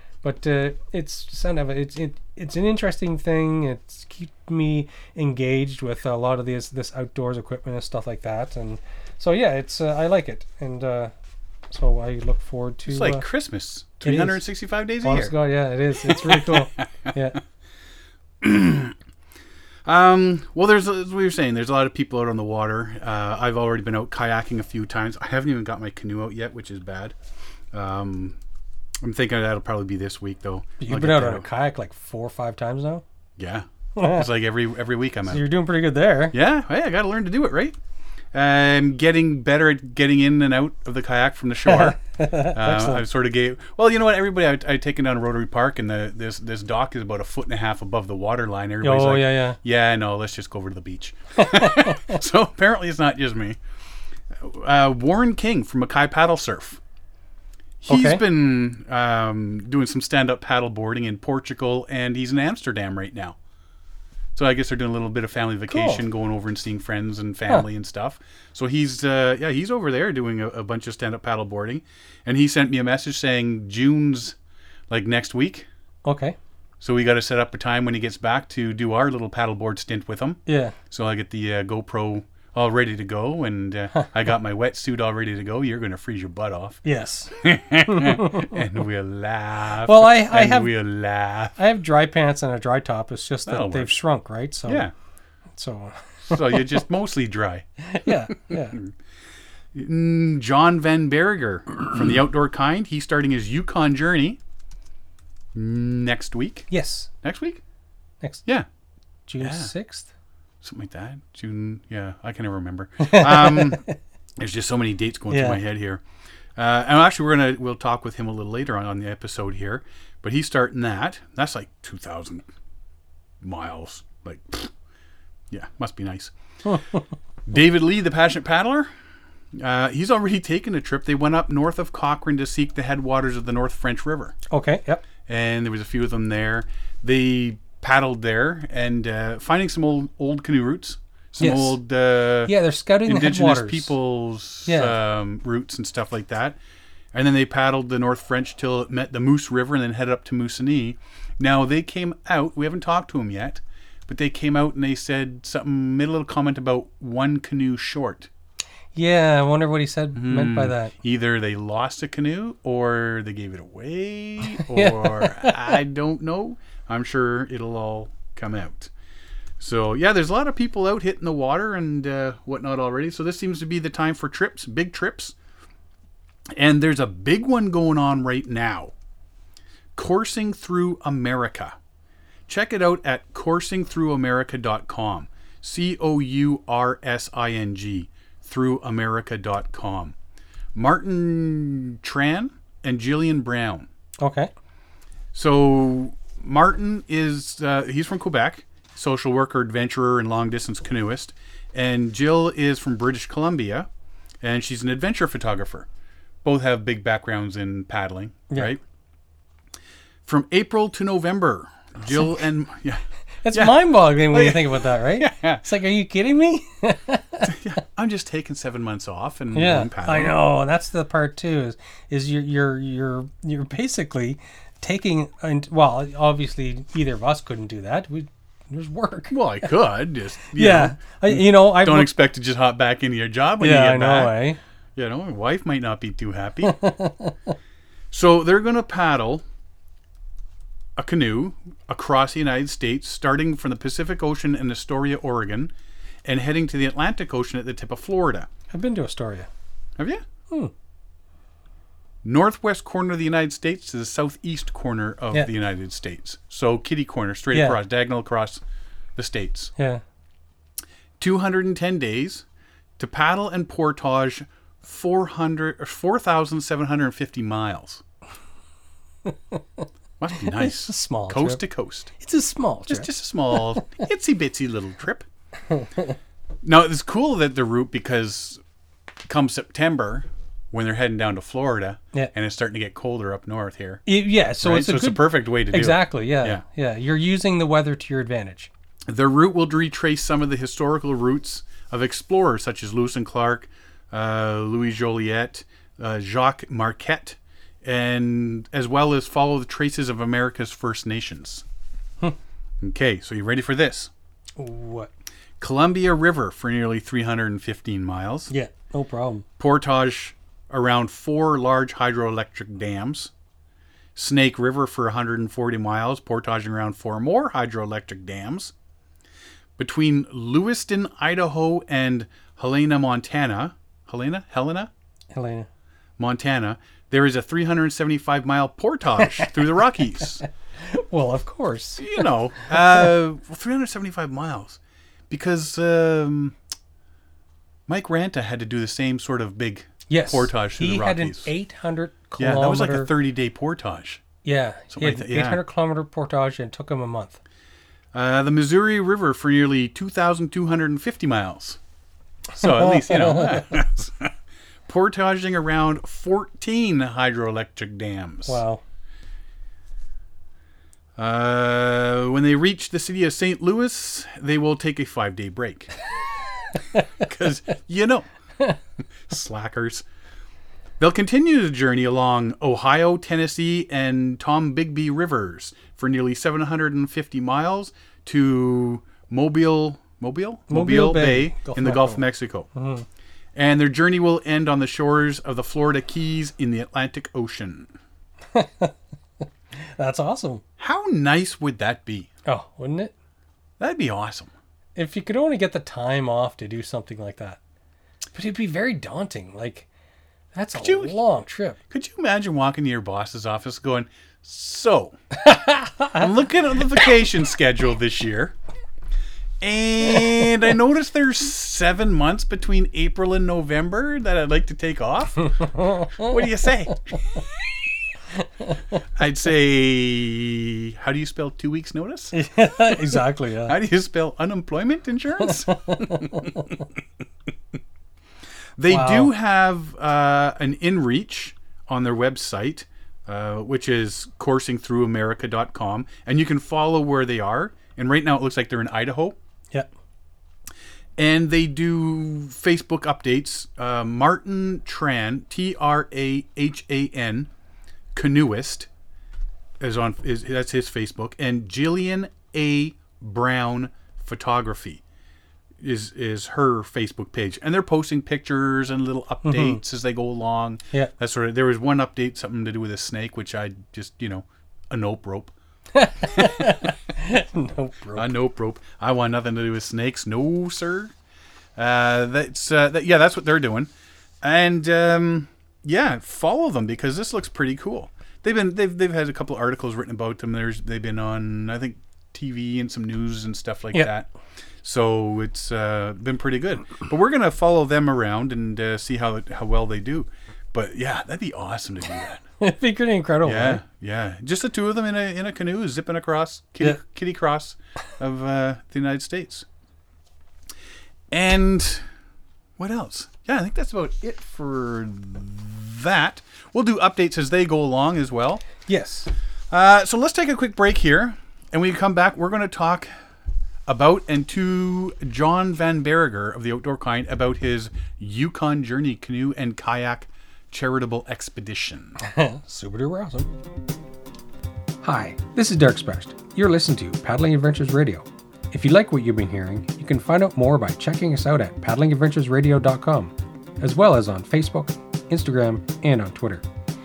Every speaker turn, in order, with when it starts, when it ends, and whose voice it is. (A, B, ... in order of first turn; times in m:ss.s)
0:00.2-0:11.1 A
0:11.7-0:13.2 A
0:12.9-0:15.3 B
0:14.0-0:14.4 A
0:15.0-0:17.4 A
0:16.0-0:16.8 B
0:18.4-0:19.0 B
0:19.8-0:27.2 B
0:27.7-0:28.4 B
0:29.0-0:31.5 B
0:30.8-0:33.0 A
0:33.4-0:35.4 B
0:34.0-0:34.2 A
0:35.2-0:36.4 A
0:36.3-0:37.8 B
0:38.3-0:53.6 B
0:41.6-0:43.0 A
0:48.8-0:49.6 A
0:51.4-0:52.2 A
0:54.3-0:56.8 B
0:57.8-1:03.4 B
0:57.9-0:58.2 A
1:04.3-1:14.4 B
1:05.7-1:06.0 A
1:14.9-1:15.7 B
1:16.0-1:16.4 A
1:16.8-1:31.6 B
1:20.4-1:20.8 A
1:26.8-1:28.6 A
1:29.8-1:30.7 A
1:31.6-1:34.9 A
1:33.4-1:33.9 B
1:34.7-1:34.9 B
1:35.6-1:36.8 A
1:36.2-1:38.9 B
1:37.8-1:38.8 A
1:39.7-1:44.4 B
1:45.5-1:46.7 B
1:46.7-1:47.1 A
1:47.2-1:47.6 B
1:49.3-1:50.1 A
1:49.4-1:49.7 B
1:50.6-1:53.8 B
1:53.0-1:53.9 A
1:54.4-1:56.0 B
1:55.3-1:55.6 A
1:56.6-2:02.5 B
2:03.4-2:04.7 B
2:05.5-2:06.3 B
2:06.6-2:07.0 A
2:07.5-2:08.9 B
2:09.5-2:14.4 B
2:14.5-2:15.0 A
2:15.2-2:22.5 B
2:21.4-2:21.8 A
2:22.4-2:23.9 A
2:23.0-2:26.6 B
2:24.6-2:24.9 A
2:27.1-2:38.3 B
2:38.9-2:40.9 A
2:40.1-2:48.9 B
2:44.5-2:45.7 A
2:49.6-2:55.3 B
2:56.5-2:58.9 B
3:00.0-3:01.8 B
3:02.5-3:10.1 B
3:10.7-3:13.9 B
3:14.2-3:14.5 A
3:15.3-3:23.9 B
3:24.4-3:25.9 B
3:26.4-3:28.8 B
3:30.2-3:35.6 B
3:33.4-3:37.6 A
3:37.4-3:40.4 B
3:39.5-3:49.7 A
3:49.3-3:54.4 B
3:50.5-3:52.1 A
3:53.6-3:54.6 A
3:55.0-3:56.8 B
3:56.6-3:57.3 A
3:58.1-3:59.4 B
4:01.0-4:05.7 B
4:06.2-4:08.5 B
4:08.7-4:09.5 A
4:10.0-4:10.2 B
4:12.2-4:18.6 B
4:17.5-4:17.8 A
4:19.2-4:19.7 B
4:19.8-4:20.0 A
4:21.2-4:22.4 B
4:23.0-4:28.0 B
4:29.2-4:31.6 A
4:30.2-4:32.1 B
4:32.2-4:33.9 A
4:32.9-4:35.2 B
4:35.7-4:36.2 A
4:36.6-4:38.6 B
4:39.3-4:44.0 B
4:44.0-4:48.7 A
4:44.6-4:46.6 B
4:49.1-5:01.6 B
5:02.8-5:04.1 B
5:04.6-5:05.1 A
5:05.6-5:08.5 B
5:08.5-5:09.4 A
5:09.6-5:13.3 B
5:14.1-5:18.7 B
5:19.8-5:24.9 B
5:25.3-5:25.7 A
5:26.2-5:30.4 B
5:29.2-5:29.5 A
5:30.3-5:33.0 A
5:32.0-5:34.8 B
5:35.3-5:36.6 B
5:37.9-5:41.5 B
5:40.1-5:43.1 A
5:42.4-5:44.2 B
5:44.4-5:47.4 A
5:44.9-5:45.6 B
5:48.1-5:51.8 B
5:52.6-5:54.3 B
5:52.6-5:53.6 A
5:54.9-5:58.6 B
5:58.4-5:58.8 A
6:01.2-6:05.9 B
6:07.0-6:08.3 B
6:09.3-6:10.0 B
6:11.0-6:22.7 B
6:20.7-6:23.0 A
6:23.5-6:27.9 B
6:28.5-6:28.9 A
6:29.7-6:30.6 A
6:30.8-6:32.3 B
6:32.4-6:33.1 A
6:33.8-6:34.5 B
6:35.0-6:37.6 A
6:38.3-6:39.9 A
6:40.5-6:41.8 A
6:40.8-6:41.2 B
6:41.9-6:45.2 B
6:45.4-6:46.2 A
6:46.0-6:48.5 B
6:49.6-6:57.4 B
6:55.6-6:56.3 A
6:58.4-6:58.8 A
6:59.2-7:06.8 B
7:02.3-7:03.8 A
7:05.7-7:06.7 A
7:08.8-7:19.4 B
7:08.9-7:09.3 A
7:21.2-7:27.5 B
7:28.1-7:28.9 B
7:29.8-7:35.0 B
7:35.8-7:45.5 B
7:39.4-7:39.8 A
7:45.9-7:48.3 A
7:46.2-7:46.9 B
7:48.1-7:51.1 B
7:51.8-7:53.9 B
7:54.4-8:04.3 B
8:04.8-8:12.4 B
8:12.6-8:13.8 A
8:13.4-8:19.6 B
8:21.3-8:22.0 B
8:22.8-8:28.6 B
8:28.9-8:29.3 A
8:29.7-8:33.1 B
8:33.9-8:42.2 B
8:42.2-8:43.5 A
8:45.0-8:56.6 A